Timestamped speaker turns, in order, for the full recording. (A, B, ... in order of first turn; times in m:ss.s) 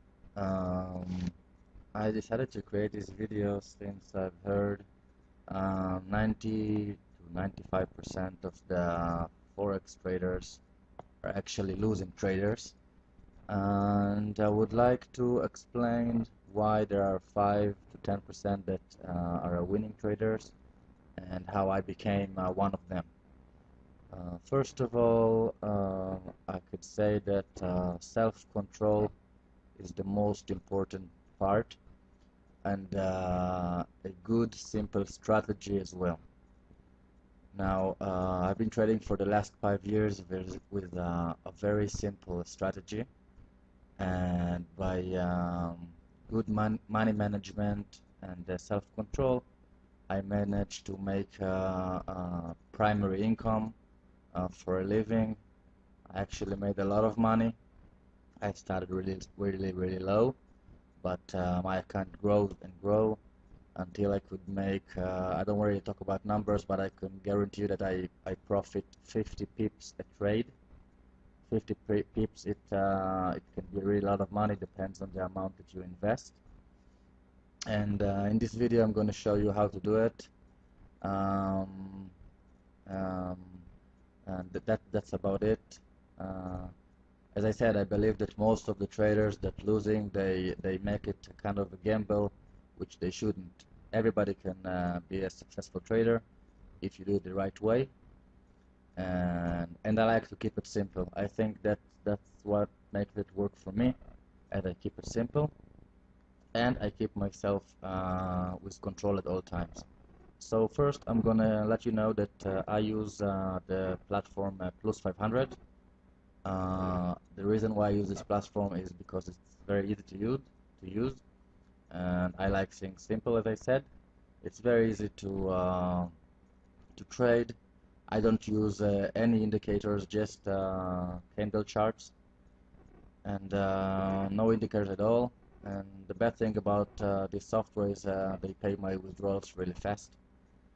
0:00.4-0:01.3 A
0:01.9-0:04.9 A
0:05.5-0:10.6 A
0:11.2-0:12.8 A
0:13.5-0:20.5 A
0:21.2-0:23.1 A
0:24.1-0:29.1 A
0:29.8-0:31.8 A
0:32.6-0:36.2 A
0:37.5-0:43.1 A
0:44.0-0:49.5 A
0:50.1-0:53.8 A
0:54.3-0:55.4 A
0:56.1-0:57.6 A
0:58.4-1:00.4 A
1:01.0-1:03.2 A
1:03.8-1:10.5 A
1:11.4-1:16.4 A
1:17.7-1:20.3 A
1:21.0-1:22.1 A
1:22.9-1:23.6 A
1:24.2-1:26.7 A
1:27.3-1:36.2 A
1:36.8-1:37.9 A
1:39.0-1:44.0 A
1:44.5-1:45.5 A
1:46.6-1:49.9 A
1:50.4-1:55.6 A
1:56.4-2:01.2 A
2:01.9-2:03.9 A
2:04.4-2:06.1 A
2:07.0-2:07.6 A
2:08.1-2:12.1 A
2:13.2-2:20.2 A